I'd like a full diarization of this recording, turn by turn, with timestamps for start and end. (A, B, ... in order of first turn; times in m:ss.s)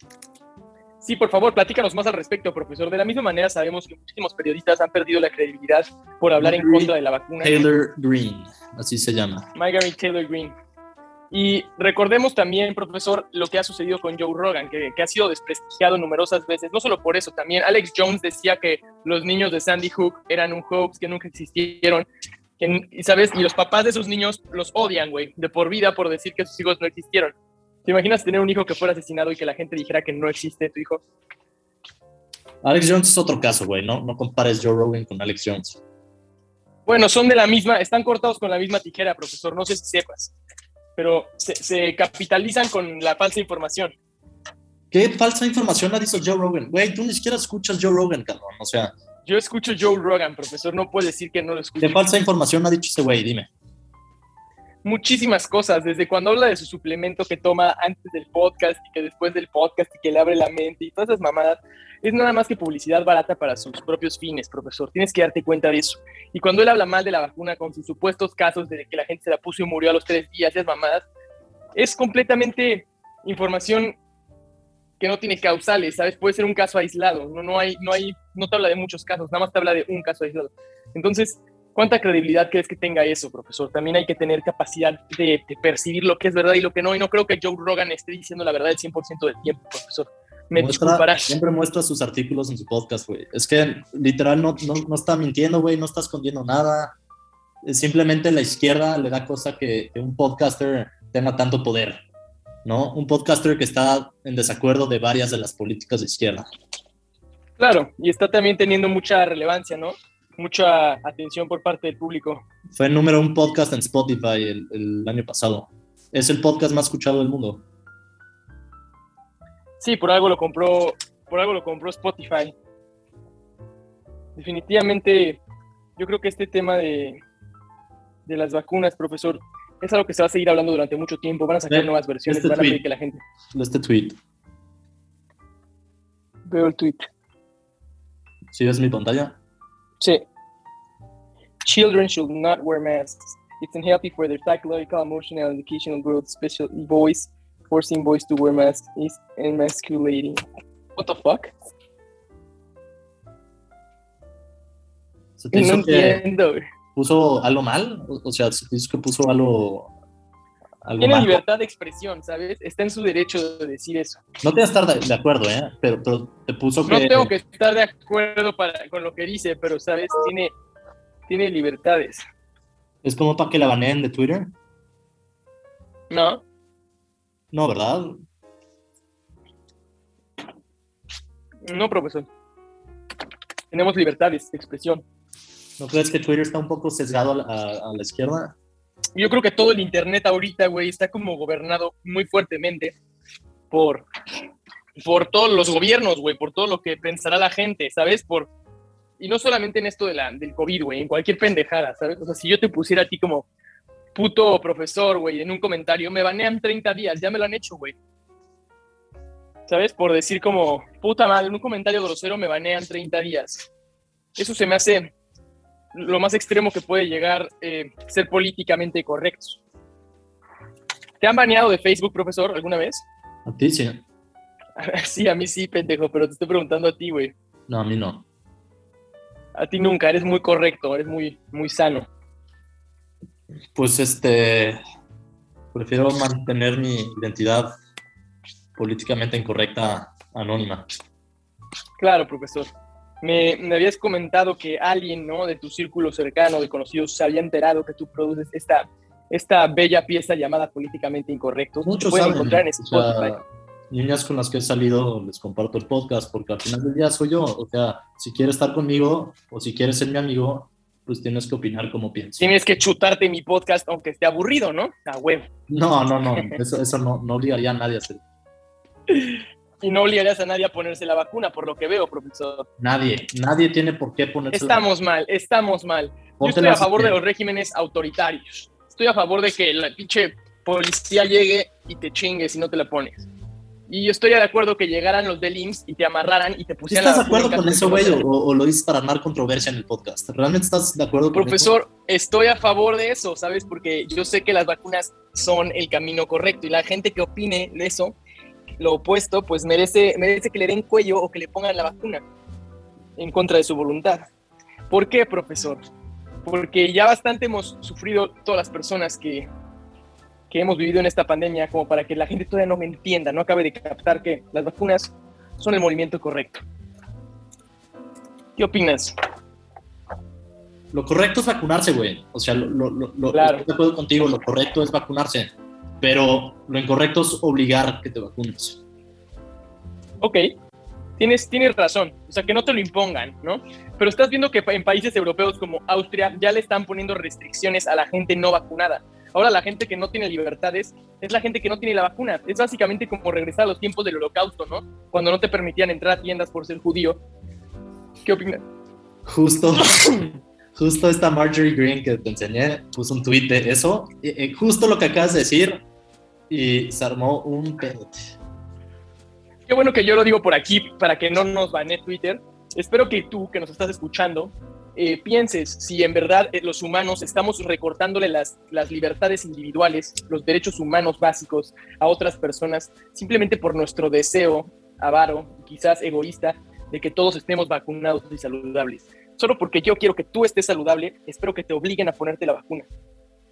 0:01.0-0:07.6 A
0:06.4-0:09.5 B
0:09.5-0:10.5 A
0:11.3-0:22.1 A
0:22.6-0:31.0 A
0:32.6-0:35.8 B
0:36.8-0:40.3 A
0:41.0-0:43.9 A
0:44.9-0:48.9 B
0:49.2-0:52.0 A
0:51.8-0:53.5 B
0:54.8-1:11.0 A
1:11.8-1:13.9 A
1:15.0-1:31.3 A
1:30.6-1:36.9 B
1:37.6-1:42.0 B
1:42.6-1:46.5 B
1:47.6-1:52.4 A
1:52.7-1:57.6 B
1:59.8-2:02.5 A
2:04.4-2:05.4 A
2:06.0-2:07.2 A
2:08.2-2:13.2 A
2:11.7-2:12.8 B
2:13.5-2:14.2 B
2:16.5-2:17.0 A
2:18.5-2:19.4 B
2:21.6-2:30.4 A
2:31.0-2:31.5 A
2:35.4-2:36.2 B
2:35.5-2:36.6 A
2:36.9-2:39.9 B
2:40.8-2:41.4 B
2:41.0-2:44.2 A
2:44.4-2:47.3 B
2:46.9-2:50.5 A
2:51.3-2:52.2 A
2:53.0-2:54.5 B
2:56.1-2:56.4 A
2:57.5-2:58.2 B
3:01.6-3:02.3 A
3:03.7-3:05.0 A
3:05.8-3:08.5 B
3:09.2-3:12.9 A
3:13.7-3:14.0 A
3:15.0-3:18.5 A
3:19.2-3:23.5 A
3:24.1-3:28.0 A
3:29.7-3:33.7 A
3:34.4-3:35.1 A
3:35.9-3:39.6 A
3:41.2-3:43.0 A
3:43.4-3:44.0 B
3:44.8-3:47.3 A
3:47.7-3:48.2 B
3:49.5-3:52.1 A
3:53.7-3:54.8 B
3:55.7-3:57.7 B
3:58.8-4:00.9 B
4:02.0-4:02.7 A
4:03.2-4:13.4 A
4:11.8-4:22.5 B
4:22.4-4:25.5 A
4:25.7-4:28.2 B
4:26.3-4:26.6 A
4:29.1-4:32.7 A
4:32.8-4:34.8 B
4:34.5-4:43.3 A
4:36.4-4:37.2 B
4:43.9-4:48.2 A
4:46.9-4:51.7 B
4:51.3-4:58.2 A
4:58.8-5:02.2 A
5:03.2-5:04.3 A
5:04.9-5:05.8 A
5:06.4-5:09.5 A
5:10.5-5:16.6 A
5:18.6-5:19.1 A
5:20.9-5:28.8 B
5:23.3-5:23.6 A
5:30.2-5:30.5 A
5:31.2-5:47.2 A
5:48.2-5:48.6 A
5:49.2-5:50.2 B
5:49.8-5:50.3 A
5:50.8-5:55.8 B
5:56.5-5:58.3 B
5:59.7-6:22.9 A